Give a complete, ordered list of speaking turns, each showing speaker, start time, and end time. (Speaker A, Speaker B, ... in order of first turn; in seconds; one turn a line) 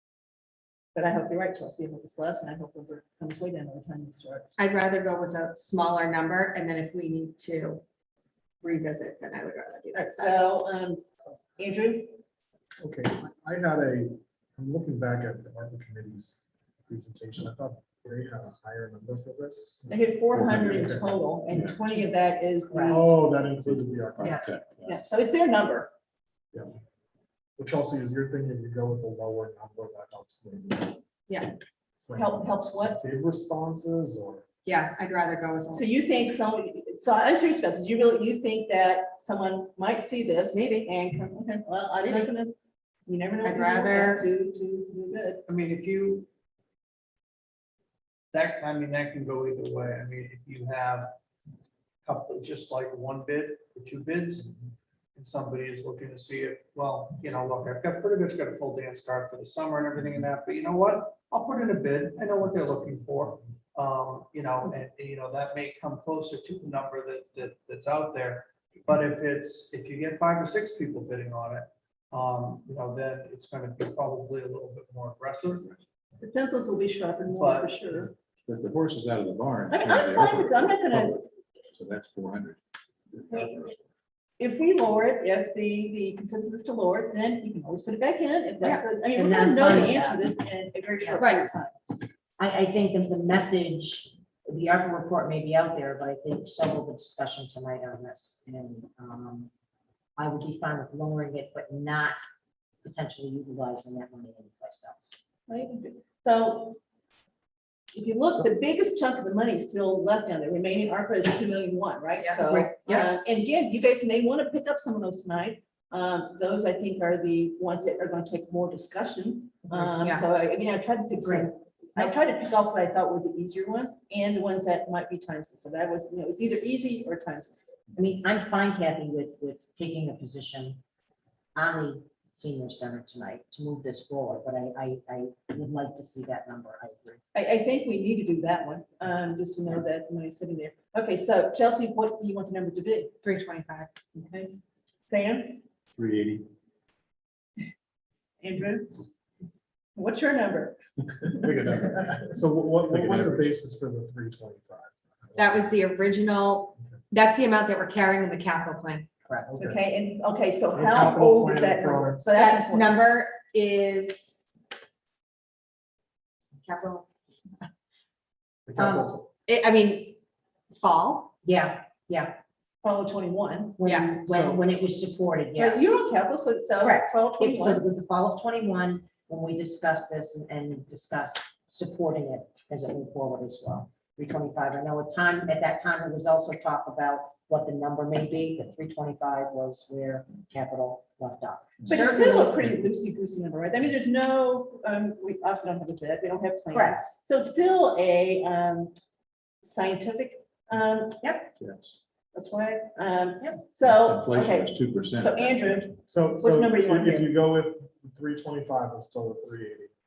Speaker A: 0.9-4.5
Speaker B: 4.6-7.8
Speaker B: 8.6-10.3
Speaker A: 9.9-11.0
Speaker A: 11.6-12.2
Speaker C: 12.8-19.9
Speaker A: 19.9-23.0
Speaker D: 20.3-20.9
Speaker C: 20.7-21.1
Speaker D: 21.5-21.8
Speaker E: 22.7-23.0
Speaker C: 22.7-24.4
Speaker D: 23.6-25.0
Speaker A: 24.9-25.9
Speaker C: 27.6-31.0
Speaker B: 31.3-31.5
Speaker C: 32.1-34.4
Speaker A: 32.1-33.0
Speaker B: 34.6-35.9
Speaker A: 35.7-42.5
Speaker B: 40.5-40.9
Speaker B: 42.0-42.3
Speaker A: 43.1-45.4
Speaker B: 43.4-44.3
Speaker F: 45.5-46.3
Speaker F: 48.3-51.2
Speaker F: 52.0-54.6
Speaker F: 55.1-75.8
Speaker A: 76.2-78.1
Speaker F: 77.3-77.8
Speaker D: 78.4-82.6
Speaker A: 79.7-81.2
Speaker D: 83.1-83.8
Speaker A: 83.3-83.6
Speaker A: 84.4-91.8
Speaker E: 89.1-90.3
Speaker B: 91.2-91.5
Speaker E: 92.4-99.5
Speaker E: 100.2-102.2
Speaker E: 102.8-105.2
Speaker A: 105.5-106.8
Speaker A: 107.9-127.7
Speaker B: 112.2-113.1
Speaker B: 120.0-120.2
Speaker E: 121.2-121.5
Speaker E: 128.0-130.8
Speaker E: 131.5-137.2
Speaker A: 137.3-143.1
Speaker B: 143.2-143.9
Speaker A: 144.1-144.6
Speaker A: 145.1-145.6
Speaker D: 145.9-146.5
Speaker A: 148.4-148.9
Speaker A: 149.9-150.8
Speaker C: 151.4-155.8
Speaker D: 151.4-151.9
Speaker D: 152.9-153.5
Speaker B: 155.3-159.1
Speaker E: 159.2-159.5
Speaker C: 159.5-159.8
Speaker A: 159.6-163.0
Speaker C: 160.7-162.2
Speaker B: 162.3-164.4
Speaker B: 166.6-167.1
Speaker C: 168.7-169.3
Speaker E: 168.8-169.1
Speaker B: 169.5-170.2
Speaker B: 170.7-171.3
Speaker E: 171.4-172.4
Speaker A: 172.8-173.8
Speaker E: 173.8-176.0
Speaker B: 173.8-174.2
Speaker A: 175.5-177.8
Speaker E: 176.8-192.6
Speaker A: 191.9-198.9
Speaker E: 196.7-197.1
Speaker A: 199.6-201.2
Speaker E: 201.2-201.5
Speaker D: 201.6-201.9
Speaker A: 202.3-207.3
Speaker D: 203.8-205.8
Speaker C: 206.0-209.9